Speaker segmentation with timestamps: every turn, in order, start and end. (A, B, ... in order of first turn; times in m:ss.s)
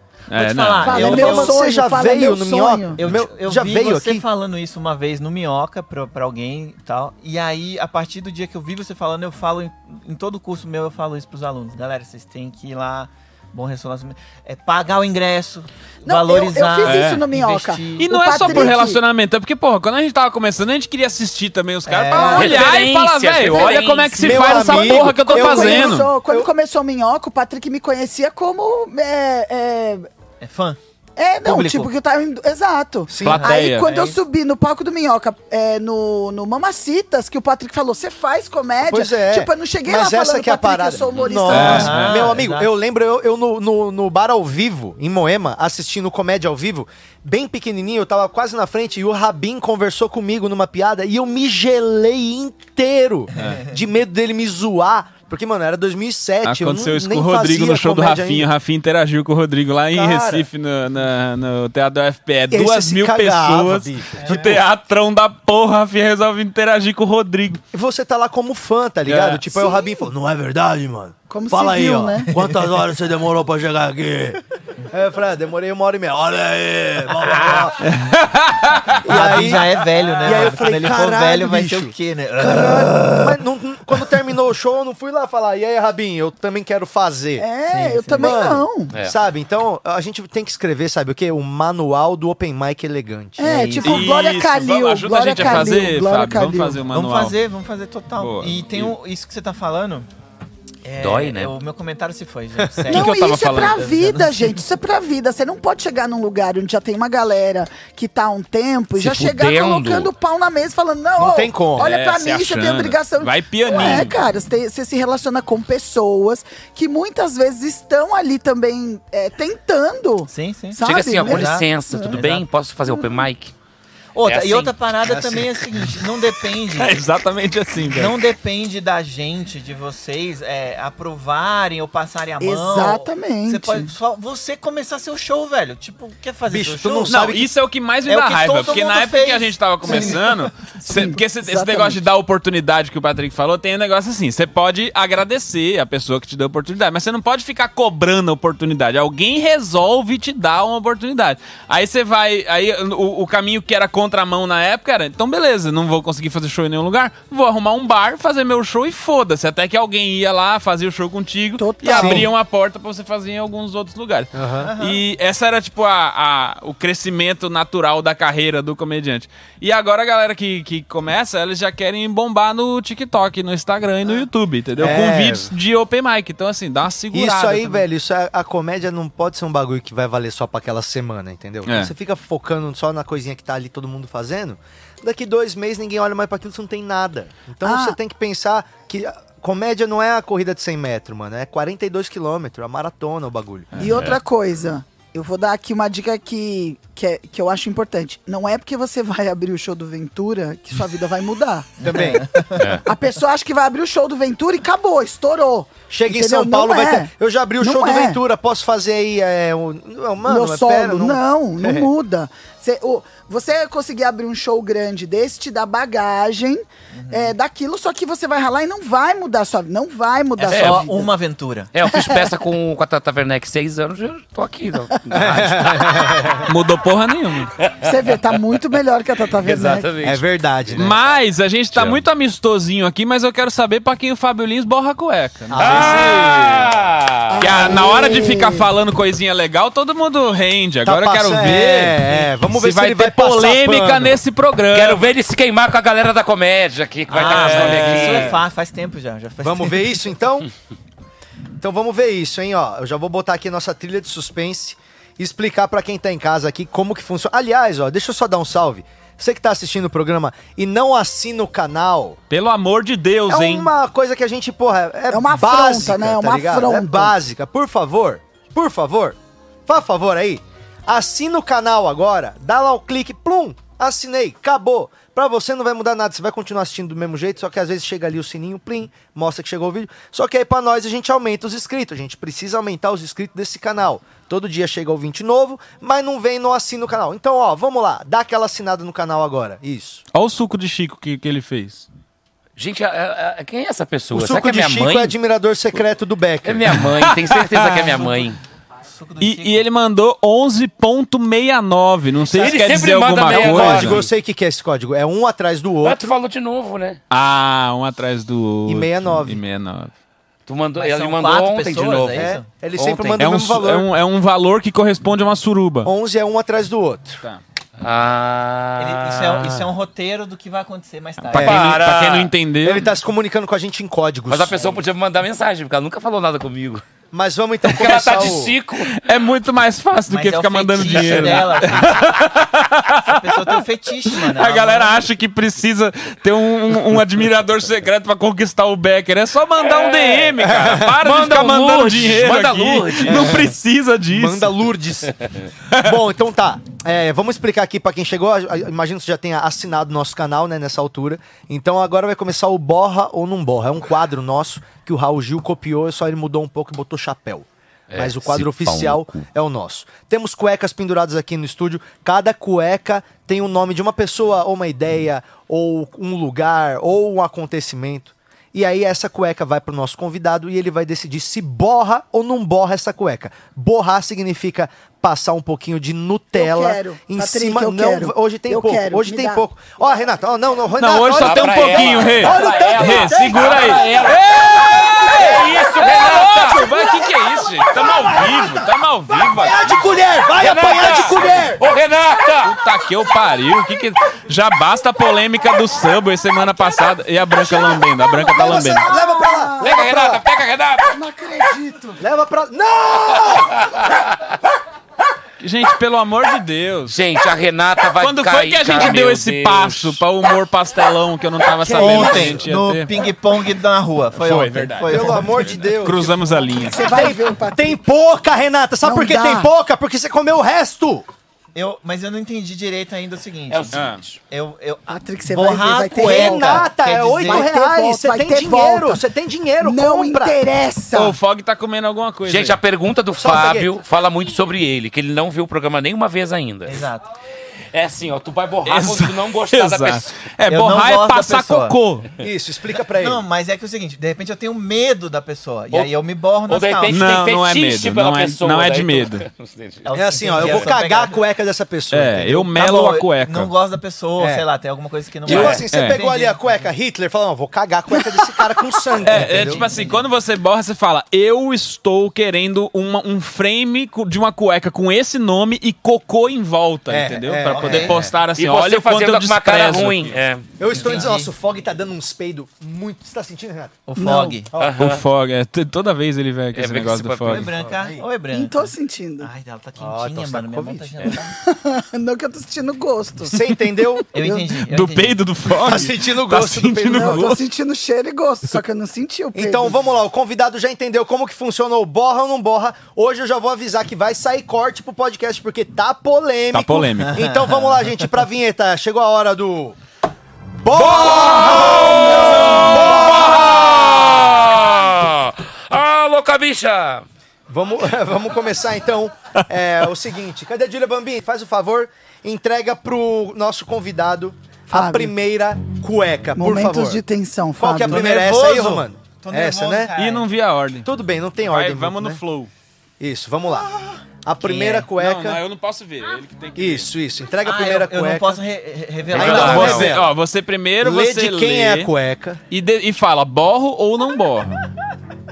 0:00.3-0:01.3 A
0:00.3-0:01.6 B
0:00.8-0:03.0 C
0:01.0-0:04.2 D
0:03.0-0:18.7 B
0:16.0-0:19.0 C
0:16.8-0:17.2 A
0:18.0-0:26.1 A
0:21.9-0:22.6 B
0:22.1-0:22.6 C
0:22.4-0:24.6 E
0:24.2-0:26.5 D
0:24.4-0:30.1 C
0:30.4-0:30.8 B
0:31.2-0:42.0 C
0:31.4-0:31.9 B
0:33.1-0:33.4 D
0:33.2-0:33.9 A
0:33.3-0:34.2 B
0:38.8-0:58.5 D
0:41.4-0:42.7 B
0:41.5-0:42.3 A
0:53.4-0:53.6 A
0:53.4-0:53.7 B
0:56.4-1:07.6 A
0:59.9-1:00.5 D
1:02.5-1:04.6 D
1:04.2-1:04.6 B
1:07.7-1:17.9 D
1:09.1-1:09.4 A
1:09.5-1:10.0 C
1:11.3-1:12.4 C
1:17.8-1:19.6 A
1:19.0-1:27.5 D
1:19.0-1:23.4 B
1:27.4-1:28.9 C
1:27.7-1:28.4 B
1:28.2-1:33.5 D
1:33.4-1:36.8 C
1:33.4-1:34.1 B
1:33.8-1:37.4 A
1:36.9-1:40.1 B
1:38.2-1:38.9 A
1:40.8-1:44.6 B
1:41.0-1:41.5 E
1:42.9-1:43.8 A
1:42.9-2:02.3 C
1:49.0-1:50.1 E
1:51.2-1:51.9 D
1:51.8-1:54.1 A
2:00.3-2:02.5 B
2:00.8-2:03.5 E
2:02.9-2:03.2 C
2:04.2-2:07.0 B
2:04.2-2:05.4 E
2:06.8-2:08.2 A
2:07.9-2:17.2 B
2:12.4-2:13.9 C
2:16.5-2:17.5 D
2:17.1-2:57.8 A
2:18.1-2:20.4 B
2:19.9-2:20.2 C
2:20.9-2:22.0 C
2:41.6-2:42.3 C
2:41.9-2:42.3 D
2:44.3-2:44.7 D
2:44.6-2:45.0 B
2:54.8-2:55.5 D
2:57.1-3:13.7 D
3:01.7-3:01.9 A
3:07.6-3:08.0 C
3:13.7-3:14.0 A
3:13.8-3:22.2 C
3:13.8-3:14.2 E
3:21.8-3:22.8 B
3:21.8-3:22.2 D
3:22.6-3:22.8 E
3:22.8-3:28.2 C
3:25.9-3:31.9 D
3:30.2-3:41.1 C
3:36.9-3:37.4 B
3:40.4-3:41.7 B
3:40.4-3:40.9 E
3:41.7-3:46.4 E
3:41.9-3:42.4 C
3:44.9-3:45.2 C
3:45.1-3:46.5 D
3:46.4-3:47.5 A
3:47.6-3:48.4 E
3:47.8-3:50.0 C
3:49.4-3:51.0 E
3:50.0-3:51.0 D
3:50.8-3:56.7 A
3:51.7-3:52.0 E
3:55.5-3:56.6 D
3:55.6-3:57.7 E
3:57.4-3:58.7 C
3:57.4-4:05.0 A
4:00.8-4:04.2 D
4:04.7-4:08.4 E
4:07.1-4:10.1 B
4:07.1-4:08.4 A
4:09.4-4:10.5 D
4:11.6-4:22.2 D
4:22.3-4:23.7 A
4:23.3-4:50.0 D
4:25.1-4:27.2 C
4:50.1-4:51.9 A
4:52.6-4:55.2 E
4:54.1-4:56.8 D
4:56.4-4:58.4 E
4:56.8-4:58.1 A
4:58.0-4:58.3 B
4:58.8-4:59.7 B
4:59.2-5:04.0 A
5:02.3-5:04.1 E
5:02.4-5:02.6 D
5:03.2-5:06.1 D
5:05.8-5:07.0 E
5:07.1-5:09.9 A
5:08.7-5:09.4 D
5:10.5-5:13.3 E
5:10.8-5:12.5 B
5:12.1-5:13.9 D
5:13.2-5:15.9 A
5:15.8-5:17.2 D
5:17.8-5:19.6 E
5:18.8-5:21.7 B
5:21.3-5:22.3 E
5:21.3-5:21.8 D
5:21.5-5:22.9 A
5:22.6-5:24.7 D
5:24.3-5:26.8 E
5:27.1-5:28.5 D
5:27.7-5:28.9 E
5:28.9-5:33.6 A
5:30.1-5:32.2 B
5:30.8-5:31.5 E
5:33.0-5:35.0 B
5:34.1-5:44.5 A
5:39.6-5:43.5 E
5:40.4-5:40.9 D
5:44.1-5:45.2 D
5:45.7-6:23.8 D
5:57.9-5:59.2 E
6:16.4-6:19.4 C
6:20.8-6:29.8 A
6:21.2-6:27.0 E
6:29.2-6:31.6 D
6:30.4-6:32.6 E
6:32.4-6:38.9 A
6:37.4-6:39.9 C
6:38.2-6:40.2 D
6:39.6-6:40.9 E
6:40.9-6:42.0 C
6:42.0-6:43.7 D
6:43.2-6:44.3 E
6:45.4-6:47.0 A
6:46.9-6:50.0 E
6:48.0-6:53.0 A
6:51.6-6:52.5 D
6:51.8-6:55.6 B
6:54.2-6:56.9 A
6:54.9-6:56.1 D
6:56.5-6:57.8 C
6:56.7-7:01.1 D
6:58.8-6:59.5 C
7:01.6-7:07.5 B
7:03.5-7:04.1 E
7:03.7-7:04.0 A
7:04.9-7:09.0 C
7:06.0-7:10.4 D
7:09.6-7:11.2 C
7:10.9-7:12.6 A
7:12.2-7:16.9 E
7:13.2-7:13.8 D
7:16.7-7:17.1 B
7:17.7-7:20.1 E
7:18.6-7:22.1 A
7:20.5-7:21.8 B
7:22.2-7:23.2 D
7:23.0-7:27.1 B
7:26.5-7:30.6 E
7:26.9-7:29.2 A
7:29.8-7:31.2 B
7:29.9-7:32.7 D
7:31.9-7:33.5 A
7:32.5-7:36.7 B
7:34.2-7:34.4 D
7:35.3-7:39.6 D
7:35.3-7:36.0 A
7:39.0-7:50.2 A
7:39.1-7:40.0 B
7:46.9-7:48.1 D
7:47.5-7:48.0 B
7:48.4-7:50.5 E
7:50.6-7:53.8 D
7:50.7-7:51.3 B
7:53.9-7:54.5 B
7:54.0-7:54.4 C
7:54.5-7:54.8 D
7:54.6-7:55.0 E
7:54.8-7:57.5 A
7:56.5-7:57.5 E
7:57.3-8:01.4 B
7:57.7-7:58.0 D
7:58.3-7:59.3 C
7:59.8-8:01.1 D
8:01.4-8:03.4 C
8:03.3-8:04.1 D
8:04.1-8:05.2 B
8:04.2-8:04.5 C
8:04.6-8:07.4 A
8:05.6-8:07.4 D
8:06.9-8:09.8 C
8:09.3-8:19.8 D
8:16.5-8:17.2 A
8:17.0-8:18.1 B
8:20.6-8:23.8 D
8:20.8-8:27.0 E
8:21.0-8:23.6 A
8:27.5-8:37.0 D
8:34.7-8:35.1 C
8:36.4-8:38.0 C
8:37.6-8:39.9 D
8:37.8-8:40.3 B
8:40.0-8:40.9 A
8:40.8-8:42.2 D
8:41.4-8:42.5 A
8:43.0-8:43.7 D
8:44.2-8:45.4 D
8:44.4-8:44.9 B
8:45.0-8:46.9 A
8:46.6-8:48.4 D
8:47.4-8:49.9 B
8:49.1-8:50.1 D
8:49.1-8:50.0 E
8:49.1-8:51.9 A
8:50.8-8:52.4 D
8:52.5-8:54.6 A